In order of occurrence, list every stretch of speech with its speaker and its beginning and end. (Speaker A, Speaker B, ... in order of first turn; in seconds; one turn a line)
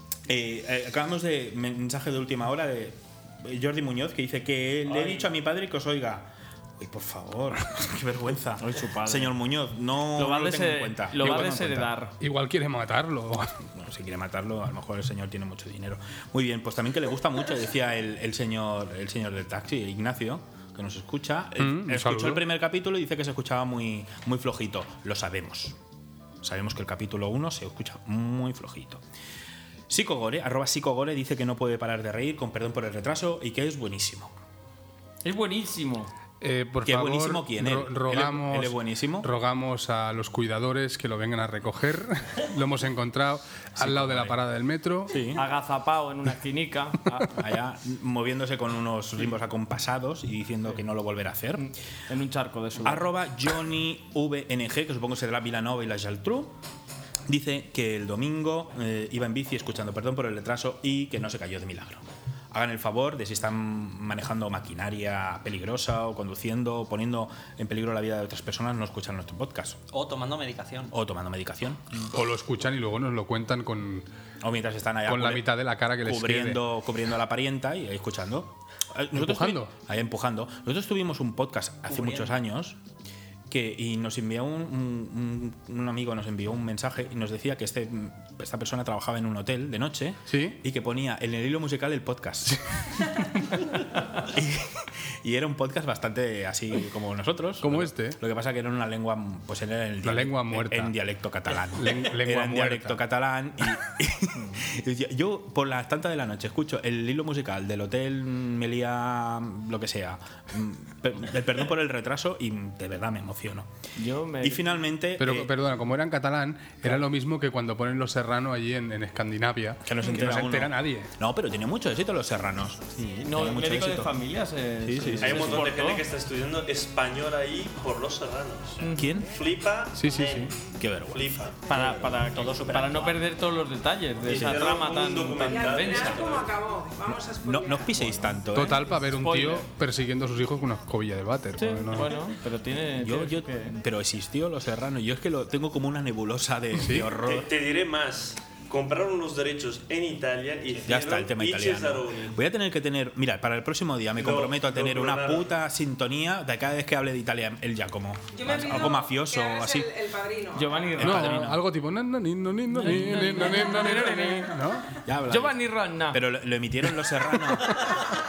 Speaker A: 0.3-11.9
Speaker B: 8.6-9.3
Speaker B: 10.2-12.1
Speaker C: 12.2-13.5
Speaker A: 13.7-25.8
Speaker C: 21.6-22.4
Speaker A: 26.4-29.0
Speaker A: 29.9-34.3
Speaker B: 35.2-36.1
Speaker C: 36.4-45.2
Speaker A: 36.8-39.3
Speaker A: 43.8-44.4
Speaker A: 45.1-45.4
Speaker B: 45.3-47.3
Speaker A: 47.4-51.7
Speaker B: 51.6-53.1
Speaker A: 52.8-56.5
Speaker A: 57.3-69.8
Speaker D: 69.9-70.9
Speaker A: 70.9-72.0
Speaker C: 72.1-74.0
Speaker A: 74.4-82.8
Speaker C: 75.1-76.6
Speaker C: 79.1-79.7
Speaker D: 81.9-82.3
Speaker A: 83.5-92.6
Speaker C: 90.3-90.6
Speaker A: 94.2-113.7
Speaker C: 97.6-98.2
Speaker C: 100.0-100.9
Speaker C: 101.7-103.0
Speaker B: 114.0-114.7
Speaker A: 114.4-115.5
Speaker C: 115.2-121.1
Speaker A: 119.8-124.1
Speaker B: 123.0-126.0
Speaker A: 124.9-125.5
Speaker E: 125.2-128.8
Speaker B: 128.8-129.1
Speaker A: 128.9-129.3
Speaker E: 129.3-130.4
Speaker C: 129.9-130.5
Speaker A: 130.8-131.4
Speaker E: 131.1-131.5
Speaker B: 131.7-136.2
Speaker D: 131.7-133.2
Speaker E: 134.2-136.5
Speaker F: 135.4-138.3
Speaker A: 137.4-138.8
Speaker C: 138.5-142.2
Speaker B: 139.1-139.7
Speaker B: 141.6-143.7
Speaker A: 142.9-147.5
Speaker C: 146.8-147.1
Speaker E: 147.2-152.3
Speaker A: 150.8-159.9
Speaker E: 154.2-155.5
Speaker F: 158.3-160.9
Speaker B: 160.5-161.6
Speaker A: 161.0-161.6
Speaker C: 161.0-164.9
Speaker B: 162.7-164.5
Speaker A: 165.0-168.1
Speaker B: 165.3-166.2